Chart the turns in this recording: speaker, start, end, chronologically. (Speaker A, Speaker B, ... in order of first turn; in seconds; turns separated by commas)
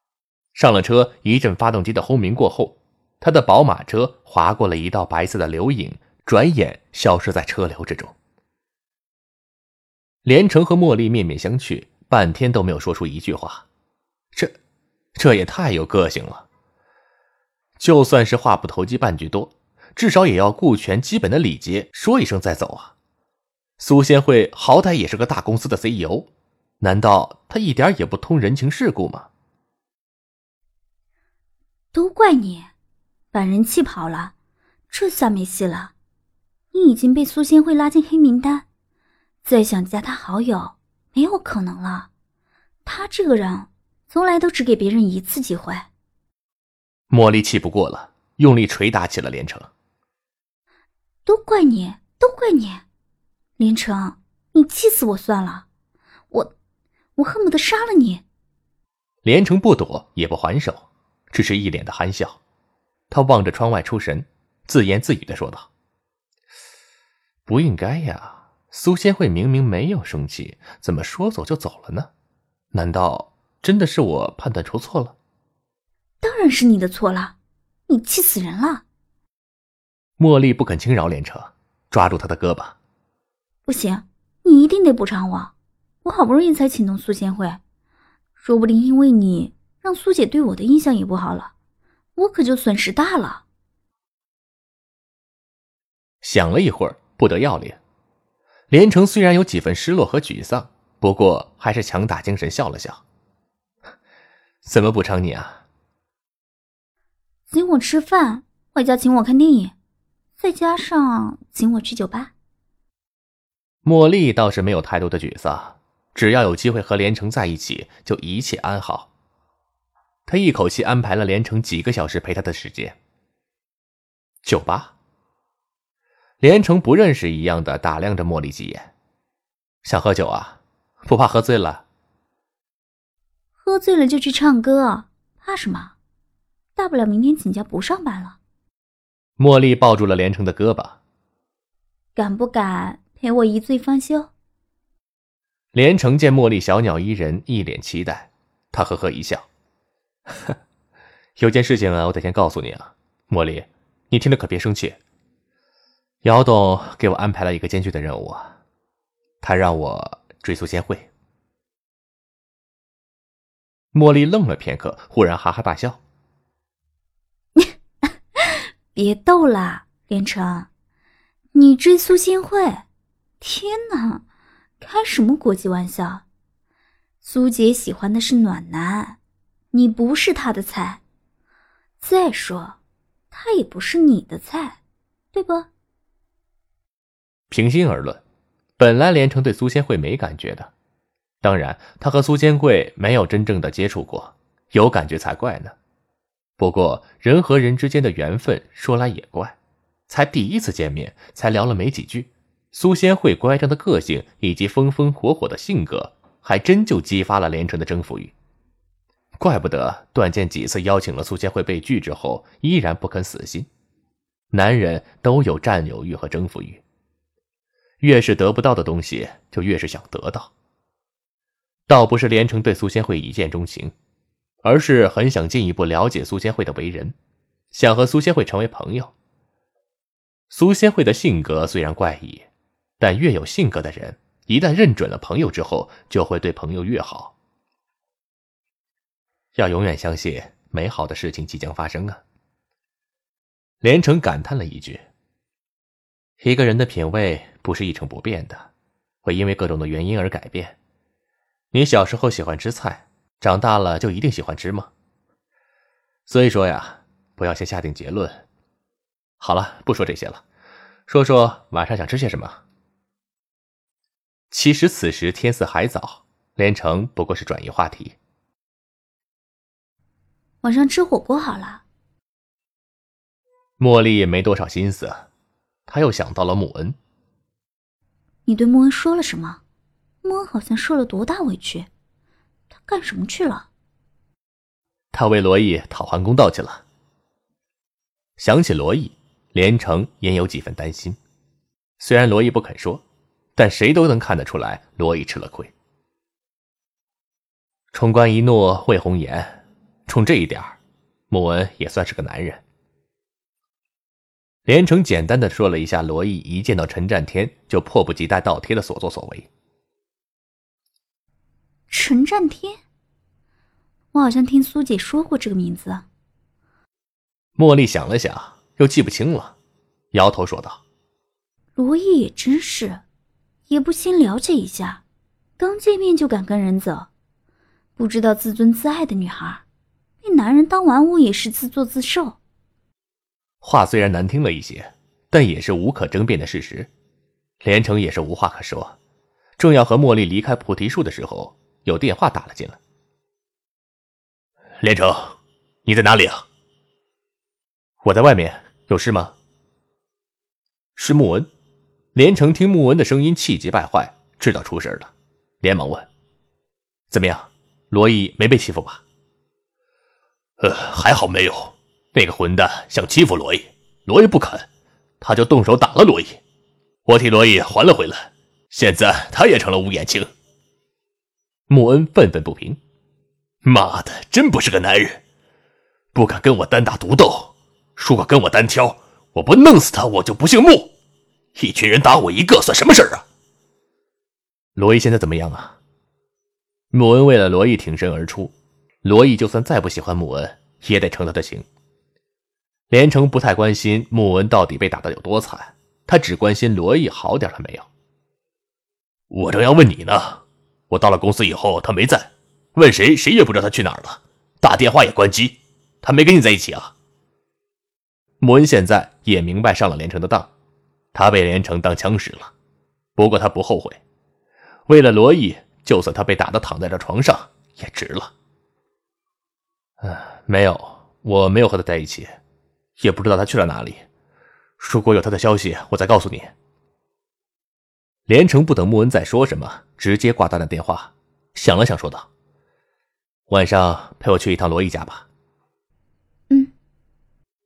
Speaker A: 0.6-8.2, Speaker A: 10.2-13.7, Speaker A: 15.2-16.5, Speaker A: 17.8-22.9, Speaker A: 23.8-26.3, Speaker A: 26.8-29.3, Speaker B: 31.9-32.7, Speaker B: 33.3-34.3, Speaker B: 34.9-35.9, Speaker B: 36.7-38.7, Speaker B: 39.4-42.1, Speaker B: 42.9-45.9, Speaker A: 47.1-49.7, Speaker B: 51.3-52.9, Speaker B: 53.6-55.7, Speaker B: 57.2-58.2, Speaker A: 59.2-62.4, Speaker A: 63.1-65.7, Speaker A: 67.5-72.1, Speaker A: 72.7-75.2, Speaker B: 76.2-77.3, Speaker B: 77.9-78.8, Speaker A: 80.2-82.8, Speaker B: 83.7-85.5, Speaker B: 86.0-87.6, Speaker B: 88.4-91.5, Speaker B: 92.2-93.4, Speaker A: 96.2-97.8, Speaker A: 98.7-103.0, Speaker A: 104.6-105.6, Speaker B: 107.5-109.7, Speaker B: 110.4-112.3, Speaker A: 113.8-119.1, Speaker A: 120.3-123.0, Speaker A: 124.4-125.0, Speaker A: 126.4-128.9, Speaker A: 129.8-131.8, Speaker B: 133.6-135.9, Speaker B: 136.8-138.4, Speaker A: 139.4-141.0, Speaker B: 142.2-144.3, Speaker A: 145.7-149.5, Speaker A: 151.4-155.0, Speaker A: 156.2-158.6, Speaker A: 159.4-161.1, Speaker A: 163.9-166.0, Speaker B: 168.4-170.7, Speaker B: 171.5-172.8, Speaker B: 173.4-174.2, Speaker B: 174.8-176.2, Speaker B: 177.2-179.2, Speaker B: 179.7-181.0, Speaker B: 182.0-182.8, Speaker B: 183.3-184.8, Speaker B: 185.3-185.7, Speaker A: 187.5-188.2, Speaker A: 188.8-190.7, Speaker A: 191.4-195.8, Speaker A: 196.6-199.6, Speaker A: 200.1-208.3, Speaker A: 209.4-213.7, Speaker A: 214.5-216.8, Speaker A: 218.0-220.5, Speaker A: 221.9-223.9, Speaker A: 224.6-227.2, Speaker A: 227.7-229.1, Speaker A: 230.5-232.5, Speaker A: 233.0-237.3, Speaker A: 239.6-242.2, Speaker A: 243.8-245.1, Speaker A: 246.4-248.7, Speaker A: 249.2-250.8, Speaker A: 251.7-254.9, Speaker A: 256.3-258.4, Speaker A: 259.4-260.4, Speaker A: 261.1-262.6, Speaker A: 264.5-268.2, Speaker B: 270.6-271.8, Speaker A: 273.8-275.3, Speaker A: 275.9-277.0, Speaker B: 278.5-279.6, Speaker B: 280.2-281.9, Speaker B: 282.8-283.7, Speaker A: 285.1-286.8, Speaker A: 288.4-291.2, Speaker A: 292.0-293.0, Speaker A: 293.6-295.7, Speaker A: 297.9-300.8, Speaker A: 301.3-302.6, Speaker A: 304.7-309.5, Speaker B: 311.9-312.8, Speaker B: 314.1-316.1, Speaker A: 317.6-319.6, Speaker A: 320.1-320.8, Speaker B: 321.8-323.0, Speaker B: 323.7-325.0, Speaker B: 325.6-327.1, Speaker B: 328.0-329.6, Speaker B: 330.2-332.4, Speaker A: 333.6-336.9, Speaker A: 337.6-339.0, Speaker A: 339.6-342.8, Speaker A: 344.8-346.4, Speaker A: 348.0-349.4, Speaker A: 351.0-351.5, Speaker A: 352.1-356.1, Speaker A: 357.1-359.0, Speaker A: 360.6-364.7, Speaker A: 365.2-366.4, Speaker A: 367.1-370.3, Speaker A: 371.7-372.8, Speaker A: 373.6-375.2, Speaker A: 376.1-380.9, Speaker A: 381.6-383.2, Speaker A: 384.8-385.8, Speaker A: 386.9-391.7, Speaker A: 392.9-397.9, Speaker A: 399.3-406.9, Speaker A: 408.4-410.5, Speaker A: 411.1-412.5, Speaker A: 413.2-414.0, Speaker A: 414.9-418.3, Speaker A: 420.0-422.4, Speaker A: 423.0-424.1, Speaker A: 424.8-426.5, Speaker A: 428.3-432.3, Speaker A: 433.5-435.3